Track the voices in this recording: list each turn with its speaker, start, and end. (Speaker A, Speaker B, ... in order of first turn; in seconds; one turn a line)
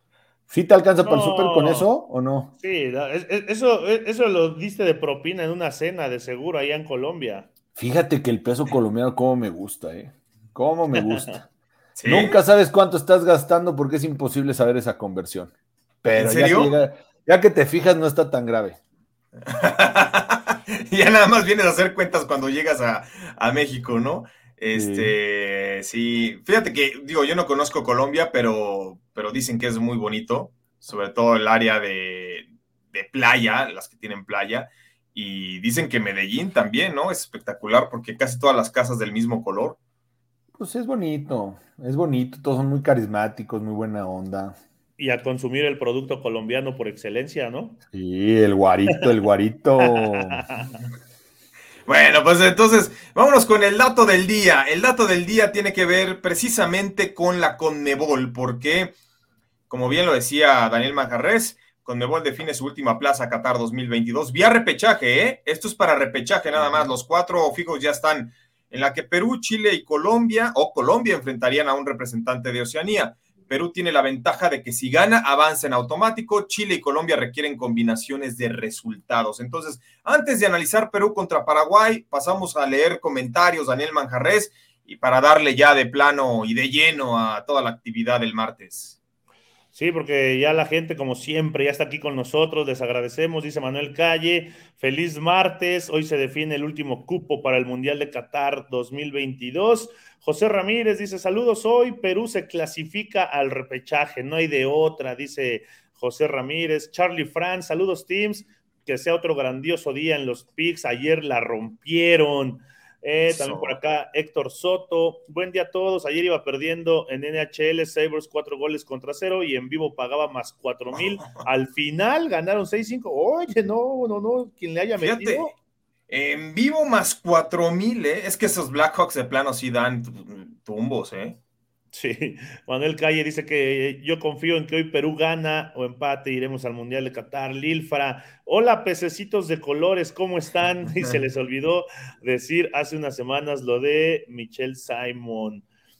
Speaker A: 0.5-2.5
Speaker B: 1.0-1.9
Speaker B: 2.6-7.5
Speaker A: 7.8-11.5
Speaker C: 12.0-12.4
Speaker A: 12.1-15.5
Speaker A: 16.0-18.8
Speaker C: 16.2-16.8
Speaker C: 19.4-39.8
Speaker A: 24.7-25.2
Speaker A: 40.6-44.6
Speaker B: 45.0-47.8
Speaker A: 47.9-50.4
Speaker B: 50.0-50.8
Speaker C: 51.9-59.0
Speaker C: 59.7-89.0
Speaker B: 89.7-125.5
Speaker C: 113.3-113.8
Speaker C: 121.2-121.5
Speaker C: 125.0-125.5
Speaker C: 126.1-131.4
Speaker B: 131.9-145.7